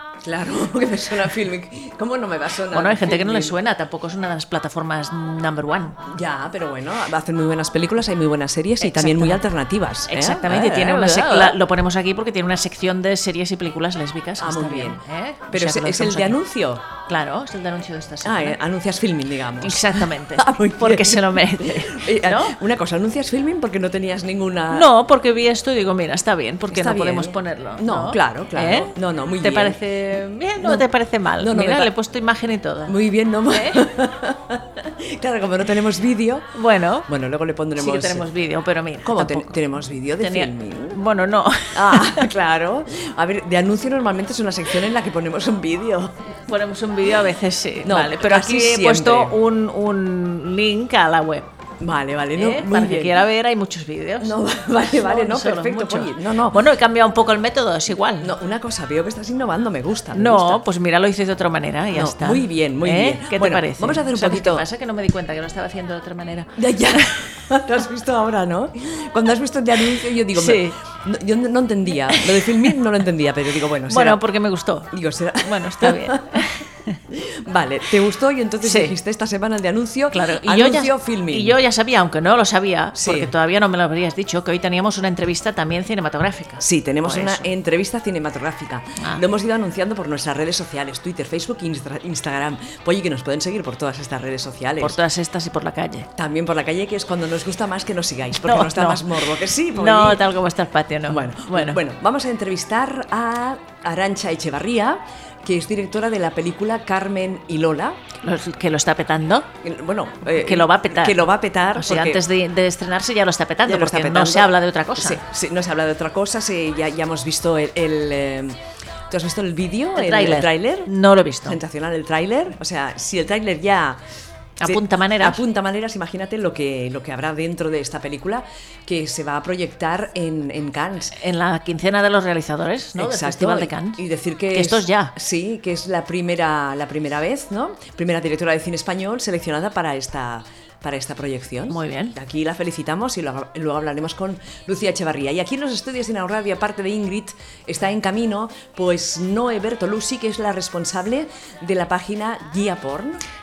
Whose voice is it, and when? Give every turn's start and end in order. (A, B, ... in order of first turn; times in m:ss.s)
0:00.2-0:03.5 A
0:02.7-0:06.0 B
0:06.0-0:11.6 A
0:08.8-0:09.4 B
0:10.0-0:16.4 B
0:14.4-0:16.8 A
0:17.0-0:18.6 B
0:18.2-0:24.9 A
0:19.6-0:22.6 B
0:24.7-0:33.0 B
0:26.7-0:29.8 A
0:30.6-0:30.8 A
0:31.4-0:31.9 A
0:32.9-0:36.5 A
0:33.5-0:33.8 B
0:36.5-0:37.1 B
0:37.1-0:38.3 A
0:37.8-0:39.6 B
0:39.0-0:41.0 A
0:40.2-0:42.3 B
0:41.7-0:46.2 A
0:46.5-0:51.5 B
0:47.8-0:49.4 A
0:51.8-0:53.2 A
0:52.4-0:58.3 B
0:54.2-0:56.6 A
0:58.2-1:00.6 A
1:00.1-1:07.2 B
1:01.9-1:04.6 A
1:06.6-1:14.2 A
1:10.3-1:10.8 B
1:13.9-1:17.0 B
1:14.9-1:16.5 A
1:17.1-1:21.6 A
1:18.6-1:18.9 B
1:20.1-1:27.5 B
1:22.9-1:23.3 A
1:26.6-1:35.0 A
1:34.8-1:36.1 B
1:36.1-1:40.2 A
1:38.4-1:39.0 B
1:39.7-1:41.8 B
1:41.1-1:48.0 A
1:48.2-1:49.5 B
1:49.6-1:52.2 A
1:50.2-1:51.2 B
1:51.7-1:55.2 B
1:53.6-2:00.9 A
2:00.0-2:01.6 B
2:01.4-2:04.0 A
2:04.6-2:05.4 B
2:04.6-2:11.2 A
2:11.1-2:15.1 B
2:13.0-2:33.2 A
2:21.7-2:22.2 B